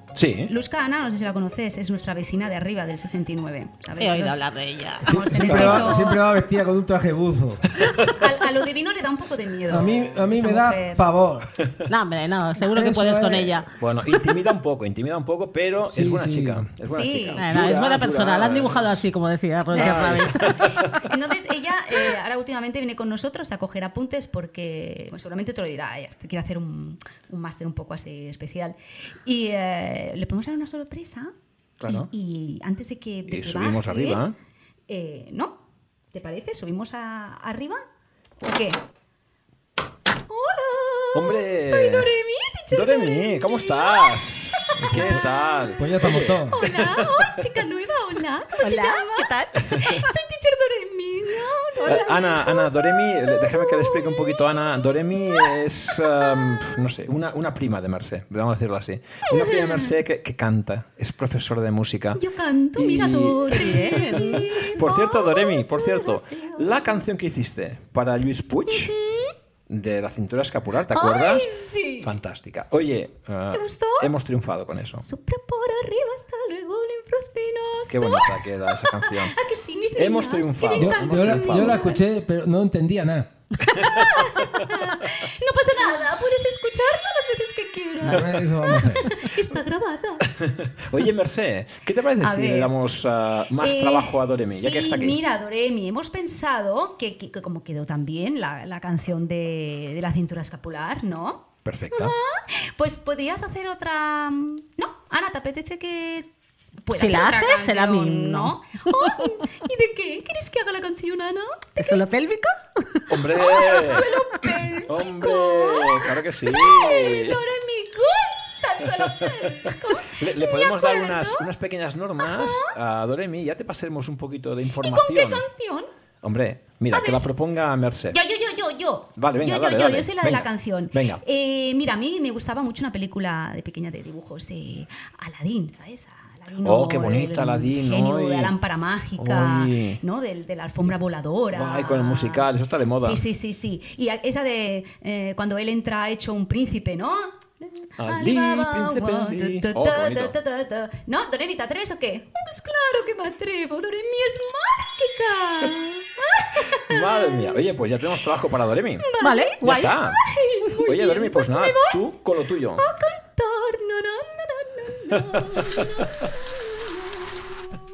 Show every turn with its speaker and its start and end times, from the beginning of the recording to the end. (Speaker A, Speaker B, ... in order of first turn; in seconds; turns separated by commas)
Speaker A: 0.1-0.5, Speaker B: 0.5-4.4, Speaker C: 4.0-5.8, Speaker B: 5.0-6.2, Speaker A: 5.1-6.1, Speaker D: 5.3-7.7, Speaker B: 8.1-11.1, Speaker D: 9.7-11.5, Speaker C: 11.9-13.7, Speaker D: 12.7-13.6, Speaker A: 13.8-19.0, Speaker D: 15.9-16.7, Speaker B: 16.9-17.5, Speaker C: 17.4-20.7, Speaker A: 19.7-21.0, Speaker B: 19.7-31.3, Speaker A: 31.8-32.1, Speaker B: 31.9-34.2, Speaker A: 33.3-34.3, Speaker B: 34.9-35.6, Speaker B: 36.1-37.8, Speaker B: 38.4-38.8, Speaker B: 40.3-54.6, Speaker A: 41.1-42.1, Speaker A: 42.7-47.3, Speaker D: 44.8-45.2, Speaker D: 45.8-46.6, Speaker C: 48.6-49.6, Speaker C: 51.8-52.1, Speaker A: 51.8-62.2, Speaker B: 55.1-56.0, Speaker B: 59.3-59.9, Speaker B: 62.1-67.0, Speaker A: 62.8-69.0, Speaker C: 63.5-64.5, Speaker B: 68.7-69.3, Speaker A: 69.7-71.5, Speaker B: 70.9-72.1, Speaker A: 72.0-75.0, Speaker B: 73.5-74.1, Speaker B: 75.0-82.0, Speaker A: 77.9-79.4, Speaker A: 80.0-81.9, Speaker D: 80.8-83.3, Speaker B: 83.7-90.3, Speaker A: 83.8-84.5, Speaker D: 88.0-89.1, Speaker A: 90.4-95.2, Speaker B: 92.2-92.7, Speaker B: 93.6-106.3, Speaker A: 101.6-102.1, Speaker B: 106.8-112.0, Speaker C: 106.9-109.2, Speaker C: 111.8-113.1, Speaker A: 113.1-117.4, Speaker B: 113.3-121.5, Speaker A: 120.0-125.4, Speaker B: 122.2-122.7, Speaker B: 124.8-125.9, Speaker A: 126.2-128.2, Speaker B: 126.9-127.2, Speaker B: 128.1-142.5, Speaker A: 129.2-131.2, Speaker A: 136.6-138.5, Speaker A: 139.2-140.0, Speaker A: 141.5-143.2, Speaker B: 143.0-157.6, Speaker A: 148.0-150.3, Speaker A: 156.7-159.1, Speaker B: 159.0-162.1, Speaker C: 159.2-159.9, Speaker A: 159.6-160.2, Speaker A: 160.8-162.8, Speaker B: 162.8-167.2, Speaker A: 165.3-165.8